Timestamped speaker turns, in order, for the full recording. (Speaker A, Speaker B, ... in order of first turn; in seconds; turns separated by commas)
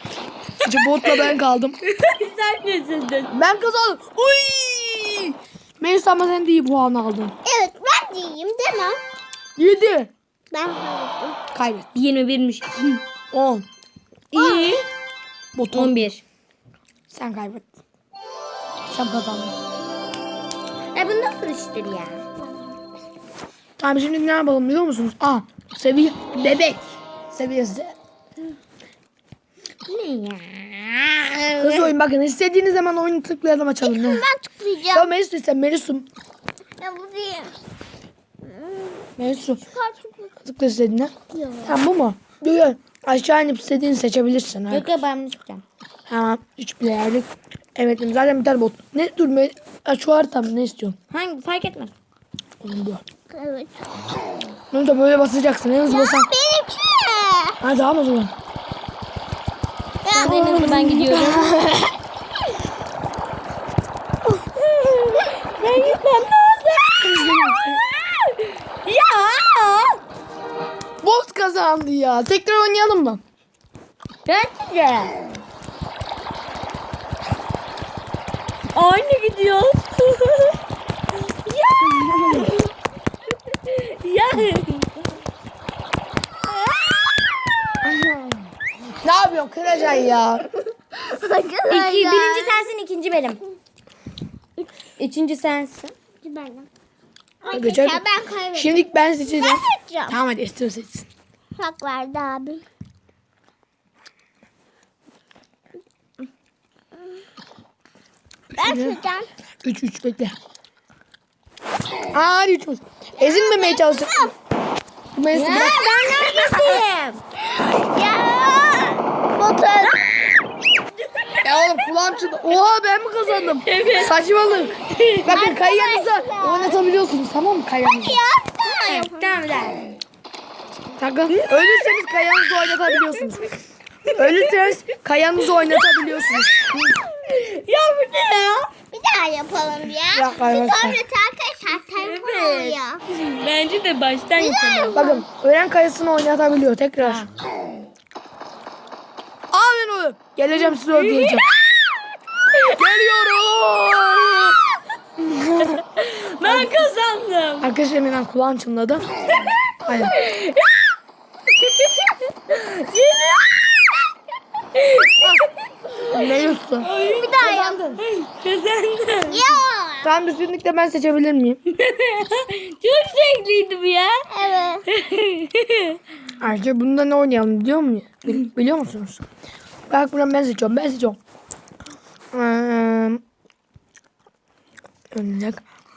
Speaker A: 0.6-3.4, Speaker B: 0.6-1.8, Speaker B: 3.3-7.3, Speaker C: 7.4-9.0, Speaker B: 9.6-10.1, Speaker C: 10.5-11.4, Speaker B: 11.5-11.9, Speaker A: 11.9-13.0, Speaker B: 13.3-13.7, Speaker A: 14.3-14.8, Speaker C: 14.3-14.8, Speaker B: 15.5-16.1, Speaker A: 15.7-16.2, Speaker B: 17.1-17.7, Speaker B: 18.9-19.5, Speaker A: 20.9-22.2, Speaker B: 23.8-27.9, Speaker A: 29.9-31.9, Speaker B: 31.6-34.2, Speaker C: 33.8-35.1, Speaker B: 34.9-36.1, Speaker C: 36.8-37.5, Speaker C: 38.4-39.1, Speaker B: 39.2-39.6, Speaker C: 39.6-40.3, Speaker B: 40.4-41.1, Speaker C: 41.3-41.8, Speaker B: 41.6-44.9, Speaker A: 44.7-45.6, Speaker B: 46.1-51.0, Speaker A: 51.1-51.9, Speaker B: 52.6-53.0, Speaker C: 53.3-53.7, Speaker B: 54.7-56.3, Speaker C: 55.9-57.6, Speaker B: 57.6-58.3, Speaker C: 60.0-60.4, Speaker A: 60.1-61.6, Speaker B: 60.2-61.9, Speaker A: 64.6-70.0, Speaker B: 67.0-67.8, Speaker B: 71.0-73.2, Speaker A: 74.2-75.2, Speaker A: 78.7-80.6, Speaker A: 81.5-82.6, Speaker A: 83.5-85.1, Speaker B: 89.0-90.5, Speaker C: 90.9-92.7, Speaker A: 91.7-93.4, Speaker A: 95.0-95.9, Speaker C: 96.2-96.7, Speaker C: 97.4-100.2, Speaker B: 97.5-98.0, Speaker B: 98.5-101.1, Speaker C: 101.5-102.6, Speaker C: 108.6-109.3, Speaker B: 108.6-109.0, Speaker B: 109.6-110.3, Speaker B: 112.1-114.2, Speaker C: 113.2-114.3, Speaker B: 115.1-115.9, Speaker A: 115.3-117.2, Speaker C: 115.4-116.8, Speaker C: 117.4-120.1, Speaker A: 121.1-121.7, Speaker B: 121.4-128.2, Speaker A: 123.6-124.1, Speaker A: 124.8-125.4, Speaker C: 125.3-126.8, Speaker C: 128.0-129.4, Speaker A: 128.6-129.8, Speaker B: 131.0-133.4, Speaker A: 131.3-131.7, Speaker A: 132.9-133.5, Speaker A: 134.1-134.5, Speaker B: 134.1-136.9, Speaker A: 136.7-138.7, Speaker C: 138.9-143.0, Speaker B: 140.1-141.0, Speaker A: 141.9-145.0, Speaker C: 144.4-145.2, Speaker B: 144.9-147.3, Speaker A: 147.0-147.3, Speaker B: 149.5-151.4, Speaker A: 150.5-151.8, Speaker B: 152.8-154.6, Speaker B: 155.2-155.8, Speaker A: 155.6-157.7, Speaker B: 156.4-156.9, Speaker B: 157.6-159.1, Speaker A: 159.3-160.9, Speaker B: 159.8-160.1, Speaker A: 161.5-164.1, Speaker A: 164.7-166.2, Speaker B: 166.0-166.9, Speaker A: 166.8-169.6, Speaker C: 167.0-168.0, Speaker B: 167.4-167.8, Speaker C: 169.3-170.1, Speaker B: 170.0-171.6, Speaker A: 171.7-174.3, Speaker C: 174.3-174.9, Speaker A: 174.9-176.0, Speaker B: 176.4-179.2, Speaker B: 179.9-181.2, Speaker B: 182.3-183.2, Speaker B: 185.1-185.6